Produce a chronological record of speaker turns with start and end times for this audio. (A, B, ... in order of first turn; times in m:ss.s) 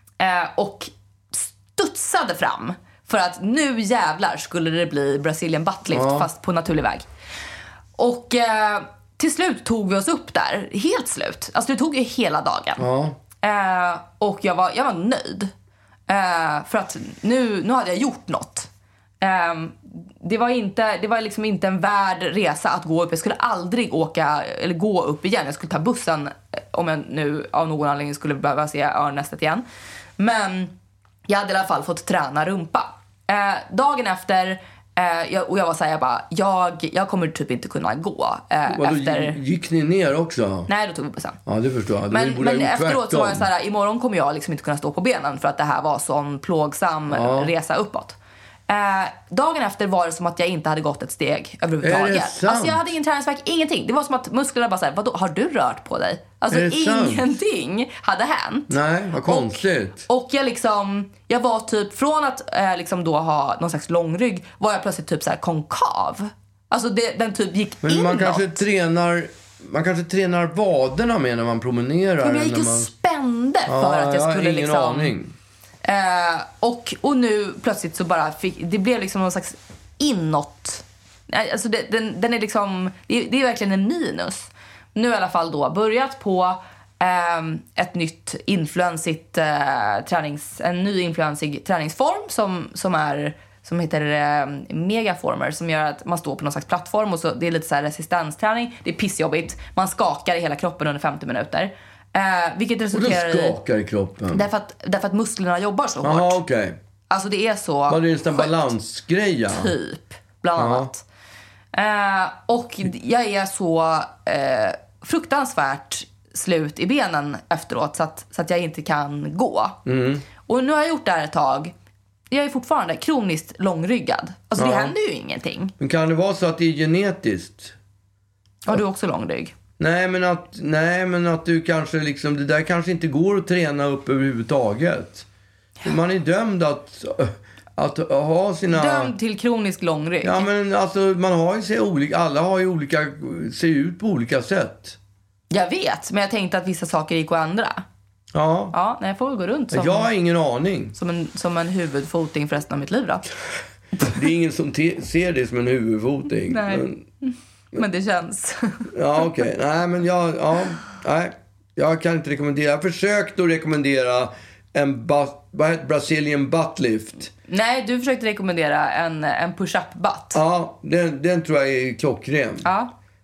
0:00.2-0:07.0 A
0:05.9-0:06.3 B
0:08.0-0:12.8 A
0:12.8-0:13.2 B
0:13.4-0:15.5 A
0:16.1-0:18.7 A
0:19.2-0:29.6 A
0:30.2-0:30.7 A
0:31.3-0:39.4 A
0:38.7-0:40.7 B
0:40.7-0:41.4 A
0:41.4-0:43.5 B
0:42.1-0:48.2 A
0:47.1-0:47.5 B
0:48.7-1:08.6 A
0:51.8-0:52.9 B
0:56.5-0:57.2 B
0:58.7-1:00.0 B
1:07.8-1:12.9 B
1:12.2-1:15.1 A
1:13.7-1:15.3 B
1:15.8-1:43.6 A
1:42.9-1:44.4 B
1:44.3-1:46.4 A
1:46.0-1:46.8 B
1:47.1-1:48.6 A
1:47.9-1:49.7 B
1:49.5-1:51.0 A
1:50.6-1:50.9 B
1:51.7-1:59.8 A
1:59.9-2:00.2 B
2:00.4-2:01.7 A
2:02.3-2:05.7 A
2:04.6-2:04.9 B
2:05.8-2:07.7 B
2:08.7-2:09.5 A
2:09.8-2:15.3 B
2:15.8-2:19.1 B
2:18.7-2:20.4 A
2:20.2-2:25.0 B
2:25.5-2:27.8 A
2:28.3-2:28.7 B
2:28.7-2:30.1 A
2:29.7-2:31.0 B
2:31.0-2:33.3 A
2:34.0-2:37.0 B
2:36.5-2:38.9 A
2:38.9-2:47.3 B
2:47.5-2:50.4 A
2:50.3-2:52.7 B
2:52.6-2:52.9 A